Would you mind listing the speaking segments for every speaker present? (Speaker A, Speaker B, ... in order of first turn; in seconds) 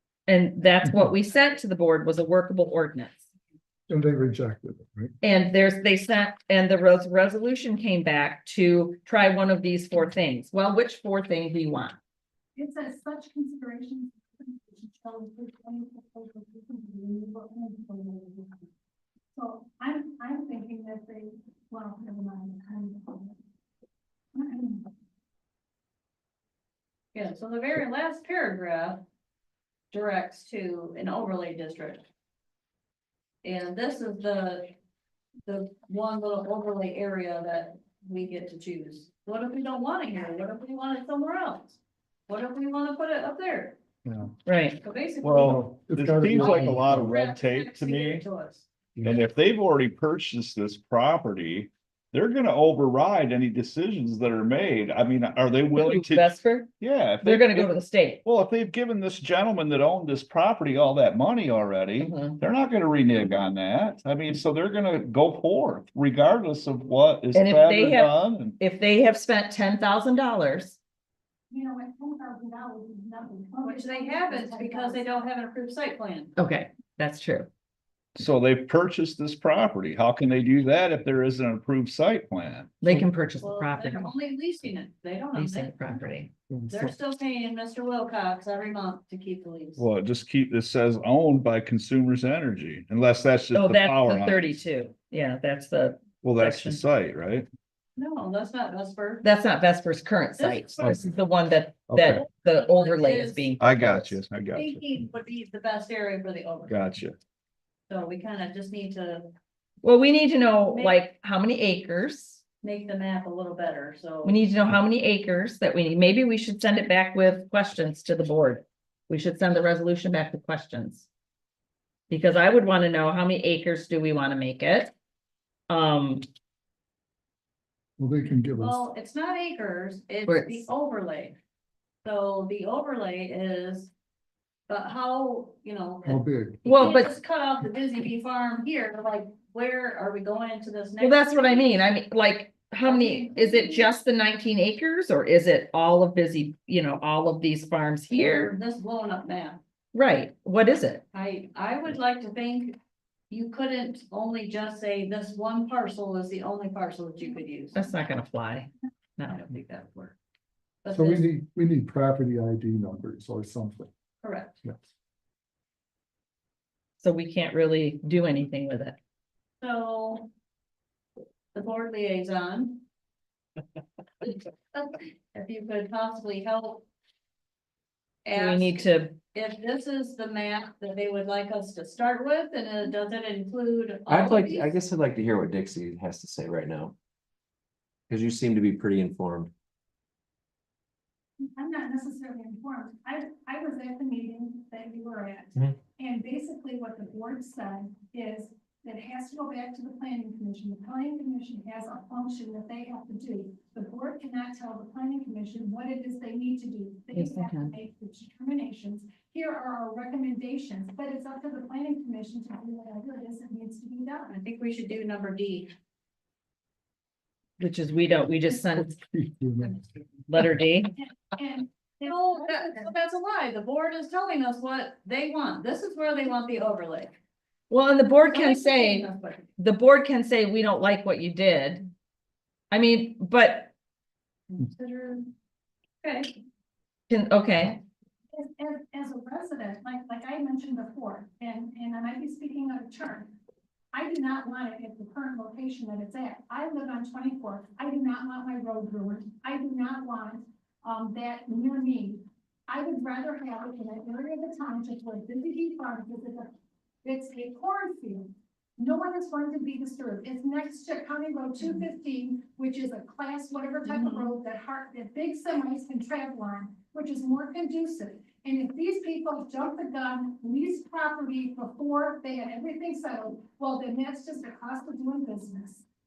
Speaker A: 0.3-3.3, 5.2-11.9, 44.5-44.8, 55.8-56.7, 57.2-58.2, 62.0-62.4, 67.3-70.8, 76.4-77.5, 82.8-84.1, 85.3-86.3, 93.5-96.8, 99.2-104.2, 109.8-112.4, 114.2-121.1, 122.1-124.9, 125.7-126.3, 130.3-130.7, 136.6-137.1, 141.0-148.5, 149.9-151.0, 157.7-159.4, 167.0-169.0, 178.3-179.2, 207.1-207.7, 217.6-219.0, 220.3-220.9, 227.7-231.9, 232.7-233.7, 237.1-237.8
Speaker B: 3.9-5.1, 44.0-44.4, 45.4-47.1, 86.5-86.9, 100.8-101.1, 128.0-128.8, 136.0-136.9, 160.9-163.9, 218.7-220.0
Speaker C: 12.6-18.7, 19.3-23.4, 24.3-24.9, 71.5-75.1, 191.4-214.4, 221.0-222.9, 238.3-243.3, 243.9-256.5, 257.0-275.8
Speaker D: 27.1-29.0, 29.9-32.0, 33.4-34.7, 35.5-43.8, 44.8-45.8, 46.3-48.7, 73.6-76.3, 83.4-85.7, 86.7-89.8, 98.0-99.2, 100.4-101.1, 102.5-103.5, 104.5-106.7, 107.9-109.3, 110.7-111.0, 112.6-114.4, 128.5-131.4, 132.0-133.9, 134.7-141.7, 142.8-143.9, 148.1-149.6, 151.1-152.8, 153.3-157.9, 159.2-160.2, 160.8-161.2, 164.2-164.6, 169.6-170.3, 171.5-172.8, 174.2-176.8, 178.2-184.7, 214.3-215.7, 222.1-227.1, 228.3-229.5, 234.5-235.3, 236.0-236.3, 263.9-264.3
Speaker E: 45.2-48.3, 49.0-68.5, 78.2-82.8, 89.8-94.4, 96.2-97.5, 101.9-102.2, 103.6-104.8, 106.7-107.2
Speaker F: 184.1-186.9, 188.1-189.5